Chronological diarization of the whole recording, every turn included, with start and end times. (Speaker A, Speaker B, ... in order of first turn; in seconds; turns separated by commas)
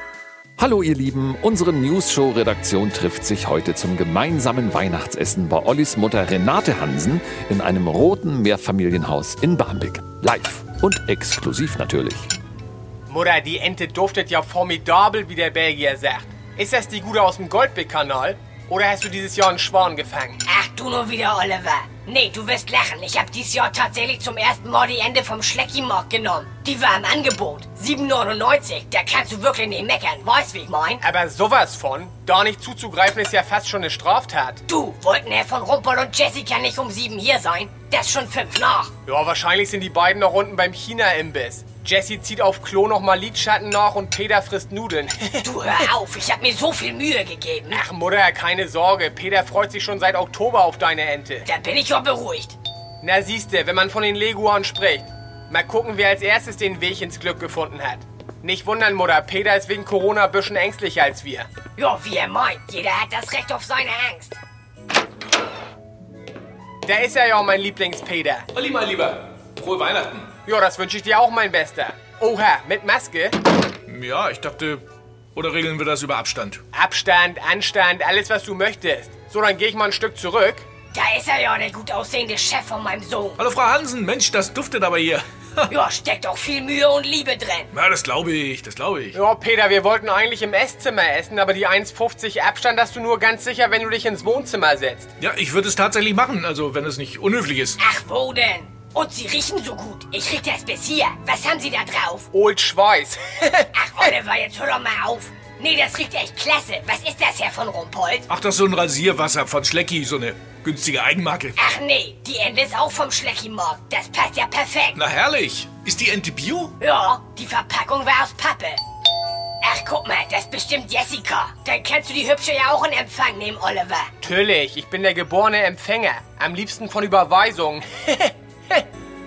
Speaker A: 0.6-12.3, Speaker B: 13.1-20.4, Speaker C: 20.4-31.0, Speaker B: 31.0-34.6, Speaker C: 34.7-38.9, Speaker B: 39.0-45.9, Speaker C: 45.4-47.8, Speaker B: 47.7-51.5, Speaker C: 51.4-52.5, Speaker B: 53.0-61.5, Speaker C: 61.8-64.4, Speaker B: 66.8-68.5, Speaker D: 68.5-70.3, Speaker B: 70.5-73.4, Speaker D: 73.9-74.8, Speaker D: 75.3-76.6, Speaker B: 76.7-80.7, Speaker C: 80.9-83.4, Speaker D: 83.4-85.7, Speaker C: 85.7-87.7, Speaker D: 87.7-89.2, Speaker B: 89.1-95.1, Speaker D: 95.2-97.8, Speaker C: 97.8-102.3, Speaker B: 102.3-104.1, Speaker C: 103.7-108.3, Speaker D: 108.3-111.6, Speaker C: 111.5-115.0, Speaker D: 114.9-116.7, Speaker C: 116.8-118.8, Speaker C: 119.6-124.1, Speaker B: 124.2-128.8